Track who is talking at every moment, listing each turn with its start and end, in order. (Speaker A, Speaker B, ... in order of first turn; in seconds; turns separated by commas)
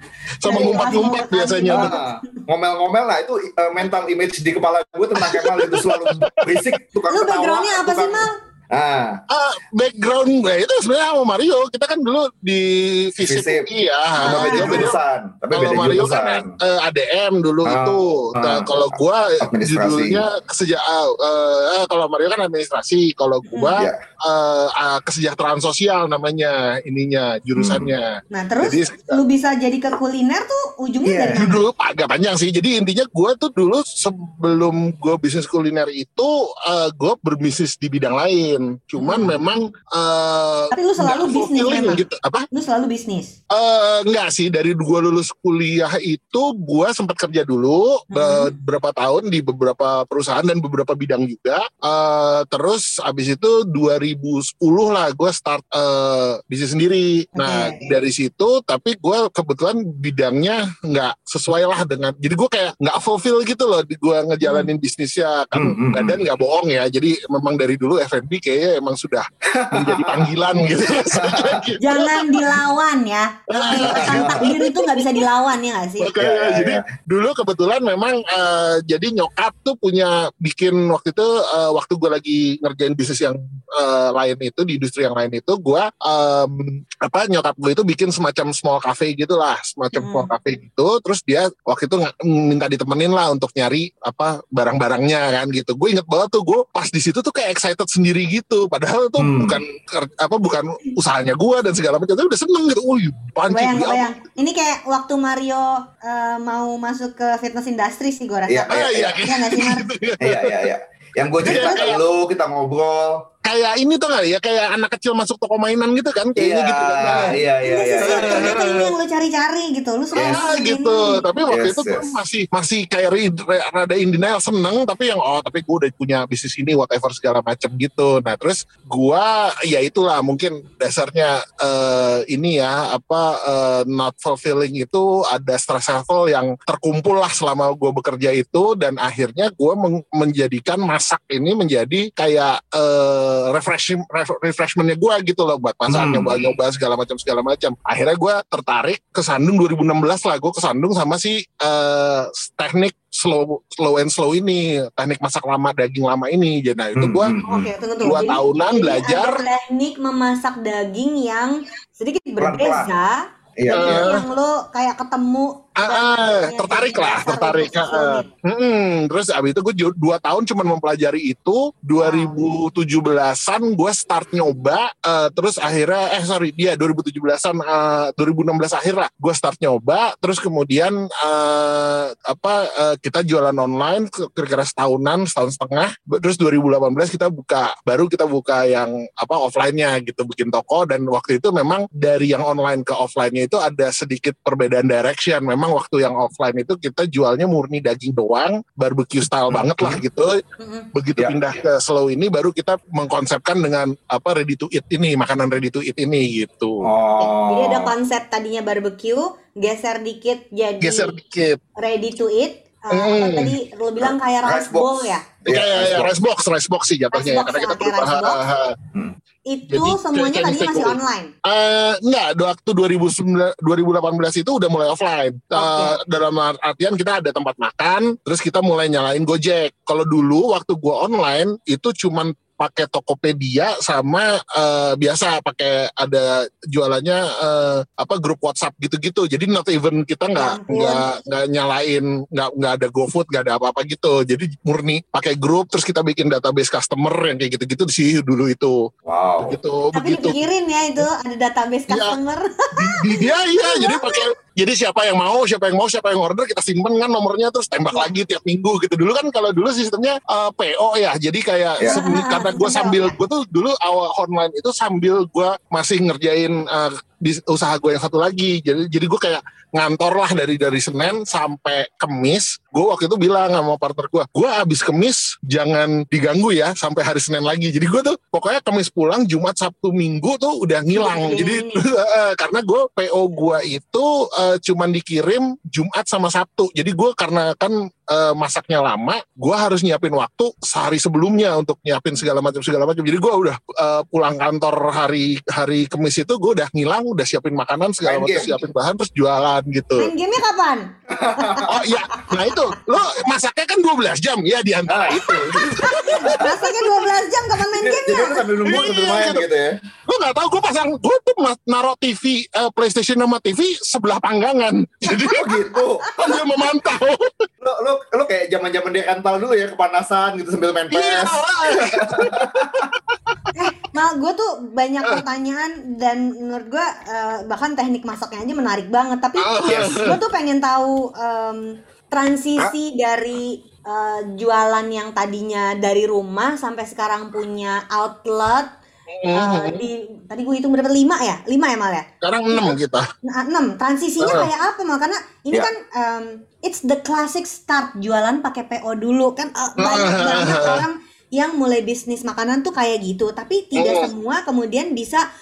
Speaker A: 0.4-2.0, Speaker B: 0.5-2.0, Speaker C: 1.7-9.2, Speaker A: 5.2-6.7, Speaker B: 7.1-8.3, Speaker A: 9.3-15.0, Speaker C: 13.2-13.7, Speaker B: 14.2-14.9, Speaker C: 14.2-16.6, Speaker A: 15.5-29.2, Speaker C: 17.6-20.2, Speaker B: 23.5-23.8, Speaker C: 27.6-27.9, Speaker B: 28.3-31.6, Speaker C: 31.0-31.5, Speaker A: 31.4-42.5, Speaker B: 39.0-39.3, Speaker B: 40.7-43.4, Speaker A: 43.5-72.5, Speaker B: 48.1-48.5, Speaker B: 57.4-57.9, Speaker B: 64.4-64.7, Speaker C: 65.5-66.2, Speaker C: 69.5-71.7, Speaker B: 71.8-76.1, Speaker A: 73.5-75.2, Speaker C: 73.7-74.5, Speaker A: 76.0-104.2, Speaker C: 76.2-76.8, Speaker B: 89.9-90.3, Speaker C: 99.2-99.6, Speaker B: 103.5-109.9, Speaker C: 108.5-109.2, Speaker A: 108.7-110.7, Speaker C: 110.2-113.3, Speaker A: 111.4-112.0, Speaker B: 111.5-111.8, Speaker A: 113.5-117.4, Speaker C: 116.4-118.9, Speaker B: 117.6-121.3, Speaker A: 118.0-118.6, Speaker C: 120.2-120.5, Speaker A: 120.2-157.4, Speaker C: 121.5-122.1, Speaker C: 145.9-146.4, Speaker C: 157.0-157.7, Speaker B: 157.4-168.3, Speaker A: 158.0-159.4, Speaker C: 162.4-162.9, Speaker C: 163.6-164.1, Speaker A: 163.7-164.2, Speaker A: 165.8-200.4, Speaker B: 172.0-172.4, Speaker C: 199.5-200.0, Speaker B: 200.6-200.9, Speaker A: 200.9-206.9, Speaker C: 206.8-207.9, Speaker B: 207.2-211.2, Speaker A: 210.8-211.6, Speaker B: 211.8-215.2, Speaker A: 212.9-213.6, Speaker C: 214.0-216.1, Speaker A: 215.5-218.8, Speaker B: 217.1-218.4, Speaker B: 219.5-221.3, Speaker A: 219.7-248.8, Speaker B: 225.5-226.0, Speaker B: 240.4-241.0, Speaker C: 249.1-249.6, Speaker A: 249.4-250.4, Speaker B: 249.9-254.3, Speaker A: 251.9-252.2, Speaker A: 252.7-300.1, Speaker B: 261.9-263.2, Speaker B: 280.9-281.8, Speaker C: 298.1-298.6, Speaker B: 300.0-301.7, Speaker C: 301.1-301.7, Speaker A: 301.7-306.5, Speaker C: 304.9-306.4, Speaker B: 305.8-308.4, Speaker C: 307.8-309.8, Speaker A: 308.6-309.4, Speaker A: 310.1-315.6, Speaker C: 315.2-316.3, Speaker A: 316.1-317.5, Speaker C: 317.6-322.9, Speaker A: 320.9-323.1, Speaker B: 323.5-338.7, Speaker A: 329.4-330.2, Speaker C: 329.7-329.9, Speaker A: 339.1-339.9, Speaker B: 339.3-342.7, Speaker A: 342.2-343.1, Speaker B: 343.2-355.2, Speaker A: 344.2-344.5, Speaker A: 349.8-350.9, Speaker A: 353.8-354.1